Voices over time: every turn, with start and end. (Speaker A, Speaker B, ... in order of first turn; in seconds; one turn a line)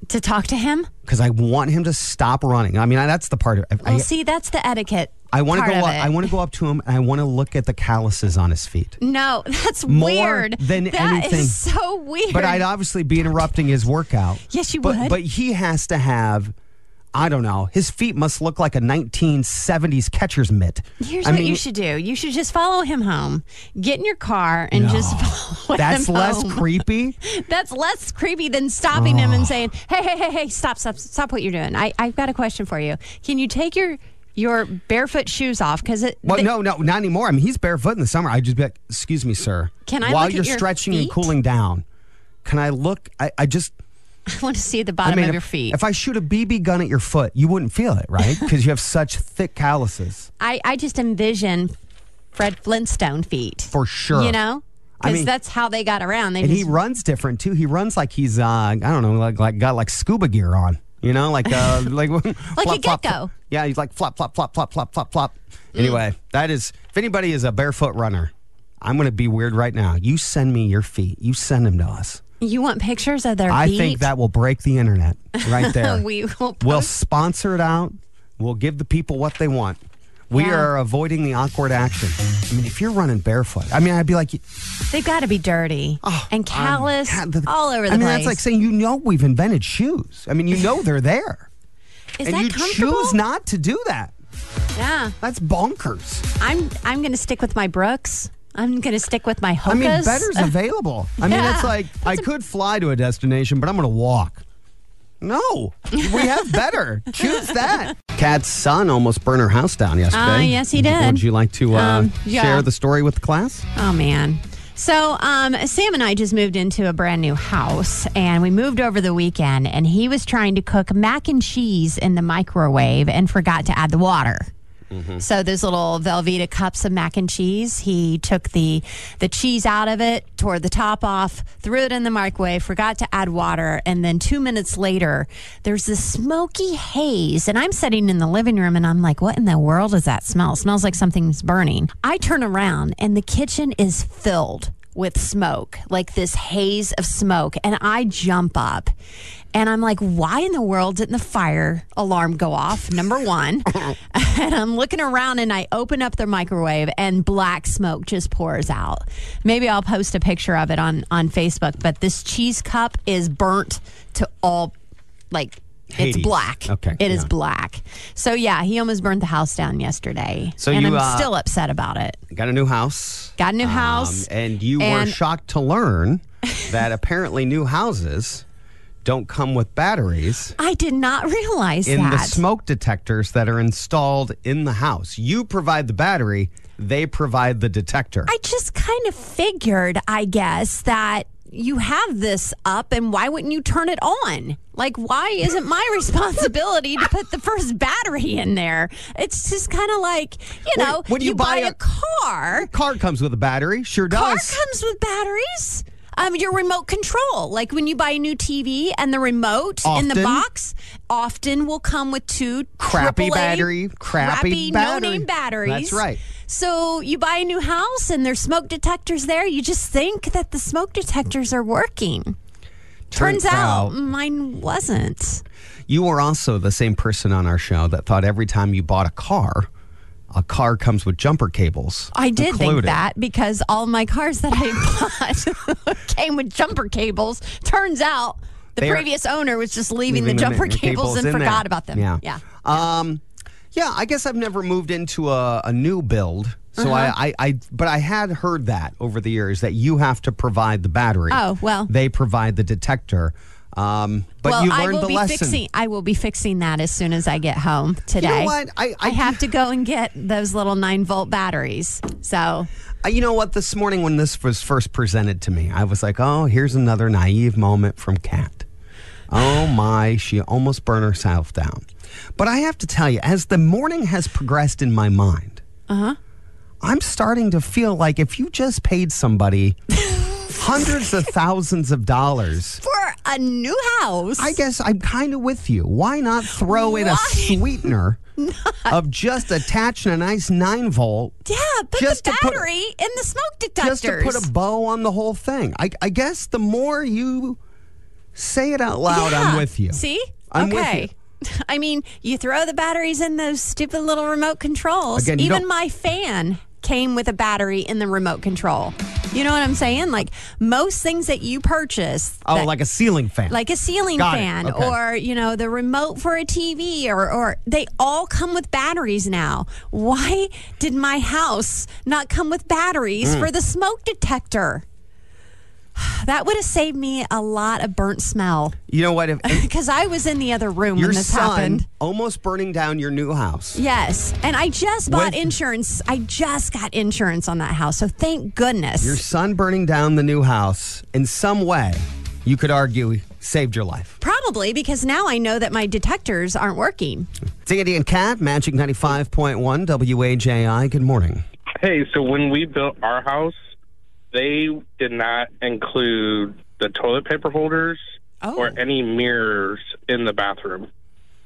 Speaker A: 0.1-0.9
Speaker B: 1.1-4.1
Speaker A: 3.8-6.3
Speaker B: 5.3-9.0
Speaker A: 9.0-12.7
Speaker B: 9.9-11.6
Speaker B: 12.3-16.5
Speaker A: 14.5-15.2
Speaker B: 17.1-21.6
Speaker A: 21.0-36.5
Speaker B: 24.7-27.2
Speaker B: 28.9-29.7
Speaker B: 36.2-41.9
Speaker A: 39.9-41.3
Speaker B: 42.5-43.7
Speaker A: 44.3-45.8
Speaker B: 45.0-50.3
Speaker A: 50.4-51.7
Speaker A: 52.4-56.7
Speaker B: 53.7-54.4
Speaker B: 55.0-55.3
Speaker B: 56.4-72.2
Speaker A: 62.6-63.3
Speaker A: 72.4-74.1
Speaker B: 73.5-76.0
Speaker A: 75.4-76.9
Speaker B: 76.6-84.4
Speaker A: 80.3-80.7
Speaker A: 84.9-88.4
Speaker B: 86.0-91.5
Speaker A: 92.2-93.2
Speaker B: 92.2-94.1
Speaker A: 94.8-95.2
Speaker B: 95.2-96.3
Speaker A: 96.4-100.5
Speaker B: 99.7-104.4
Speaker A: 101.2-102.2
Speaker B: 105.2-113.7
Speaker A: 110.1-112.7
Speaker A: 113.8-124.5
Speaker B: 124.9-125.2
Speaker A: 125.2-148.9
Speaker A: 149.5-164.7
Speaker A: 165.3-172.2
Speaker B: 165.9-167.3
Speaker B: 170.6-171.3
Speaker B: 172.3-178.4
Speaker A: 173.4-175.2
Speaker B: 179.0-180.6
Speaker A: 180.6-182.4
Speaker B: 181.9-188.3
Speaker A: 188.3-202.7
Speaker B: 200.7-201.8
Speaker B: 202.5-204.6
Speaker A: 204.1-222.4
Speaker B: 209.8-210.4
Speaker B: 212.8-216.2
Speaker B: 223.1-224.0
Speaker A: 223.1-225.4
Speaker B: 225.9-229.7
Speaker B: 230.3-233.0
Speaker A: 232.1-242.5
Speaker B: 238.8-239.1
Speaker B: 240.1-243.2
Speaker B: 243.7-255.6
Speaker A: 246.8-247.2
Speaker A: 251.3-251.9
Speaker A: 254.4-262.7
Speaker B: 258.2-259.4
Speaker B: 263.0-268.7
Speaker B: 269.3-271.9
Speaker B: 272.4-275.6
Speaker A: 275.9-276.2
Speaker B: 276.8-279.8
Speaker B: 280.5-282.8
Speaker A: 282.8-284.6
Speaker B: 284.4-288.2
Speaker A: 286.6-289.0
Speaker B: 288.9-291.4
Speaker A: 291.5-294.5
Speaker B: 291.9-292.7
Speaker B: 293.8-297.6
Speaker B: 298.4-301.1
Speaker A: 299.1-312.7
Speaker B: 305.2-305.7
Speaker B: 312.5-313.6
Speaker A: 313.5-324.8
Speaker B: 314.2-315.0
Speaker B: 323.2-323.5
Speaker A: 326.0-328.8
Speaker B: 328.9-329.7
Speaker A: 329.4-331.9
Speaker B: 330.9-333.8
Speaker A: 333.7-339.2
Speaker B: 335.1-335.6
Speaker B: 339.0-344.2
Speaker A: 344.2-347.3
Speaker B: 347.6-351.4
Speaker C: 351.8-353.6
Speaker C: 354.3-358.0
Speaker A: 358.4-358.8
Speaker C: 358.6-360.9